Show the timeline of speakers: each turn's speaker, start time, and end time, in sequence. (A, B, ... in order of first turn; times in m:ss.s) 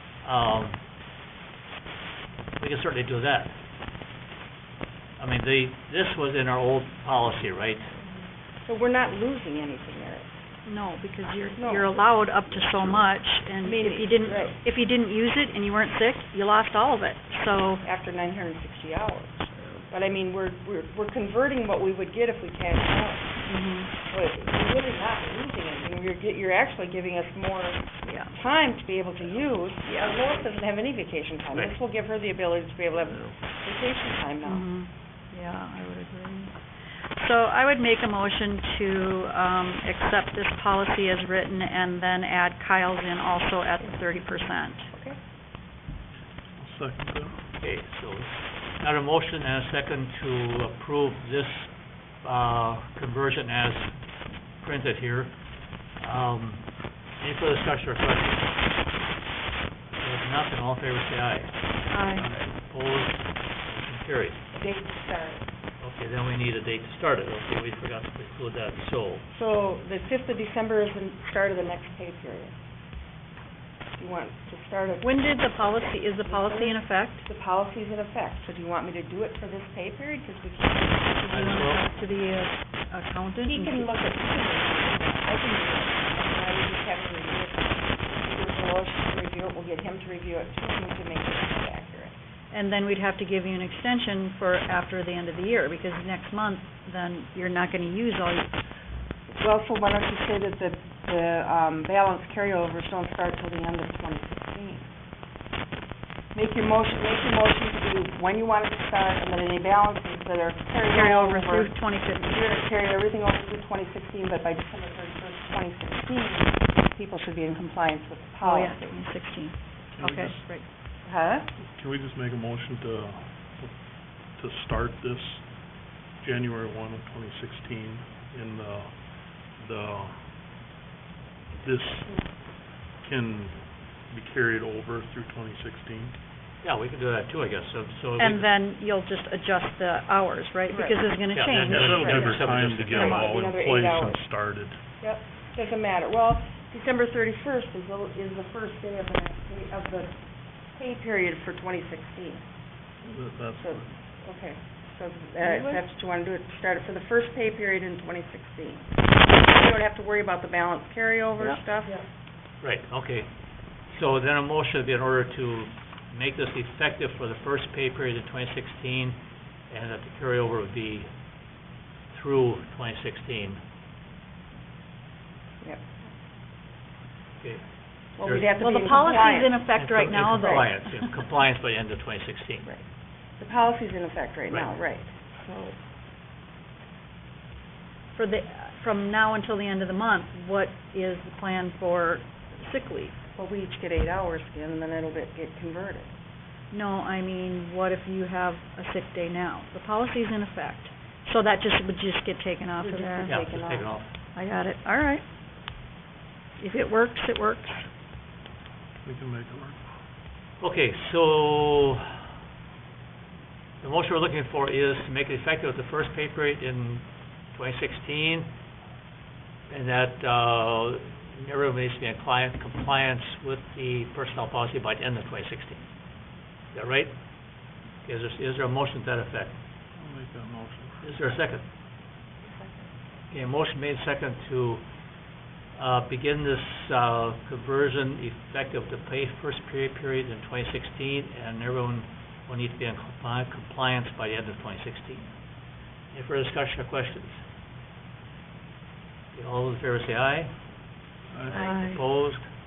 0:00.2-0:00.8 A
0:02.5-0:03.6 A
0:05.2-0:07.9 A
0:08.6-0:10.3 B
0:10.6-0:17.8 C
0:11.6-0:11.9 B
0:13.6-0:14.6 B
0:17.8-0:23.4 B
0:23.4-0:23.9 C
0:24.0-0:34.6 B
0:28.0-0:28.4 C
0:29.9-0:30.1 C
0:33.1-0:33.3 A
0:34.4-0:36.6 C
0:37.2-0:44.9 C
0:44.9-0:45.2 B
0:46.5-0:47.4 D
0:47.6-0:54.0 A
0:54.6-0:55.4 A
0:56.0-0:58.6 A
1:00.0-1:04.4 A
1:01.9-1:02.3 C
1:04.5-1:05.4 B
1:05.8-1:09.2 A
1:09.3-1:12.6 B
1:14.0-1:21.2 B
1:15.0-1:17.2 C
1:21.1-1:24.0 C
1:21.3-1:21.8 A
1:23.4-1:32.1 B
1:32.5-1:38.5 C
1:39.4-1:44.9 B
1:46.3-1:59.0 B
1:50.9-1:52.4 C
1:58.4-2:00.6 C
2:00.0-2:00.5 D
2:01.0-2:01.5 B
2:01.6-2:05.5 D
2:06.1-2:10.2 D
2:11.6-2:12.2 D
2:13.0-2:16.1 D
2:16.6-2:18.5 A
2:18.2-2:23.3 C
2:20.7-2:21.0 B
2:21.3-2:23.3 A
2:21.6-2:24.8 D
2:22.9-2:24.2 B
2:25.0-2:30.2 B
2:30.7-2:32.4 B
2:33.0-2:33.9 D
2:33.6-2:42.0 B
2:35.4-2:35.8 C
2:42.6-2:51.1 A
2:52.1-2:53.6 A
2:55.6-2:56.0 B
2:57.4-2:57.7 A
2:58.2-2:59.6 B
2:58.2-2:58.5 A
2:58.6-3:01.3 C
2:59.7-3:02.7 A
3:00.4-3:00.7 B
3:03.4-3:05.7 B
3:08.1-3:13.2 C
3:13.3-3:16.1 B
3:16.7-3:23.4 C
3:22.8-3:24.0 B
3:23.2-3:24.1 A
3:24.3-3:25.2 C
3:26.6-3:27.9 C
3:29.0-3:29.8 D
3:30.6-3:32.2 A
3:33.8-3:38.5 A
3:39.7-3:45.9 A
3:46.7-3:47.3 A
3:48.0-3:49.6 A
3:50.0-3:51.0 D
3:51.0-3:51.7 A
3:52.4-3:52.9 B
3:53.3-3:54.8 A
3:55.7-4:05.3 A
4:06.1-4:07.4 A
4:09.3-4:10.5 A
4:11.3-4:11.6 D
4:11.4-4:12.5 A
4:11.6-4:12.0 C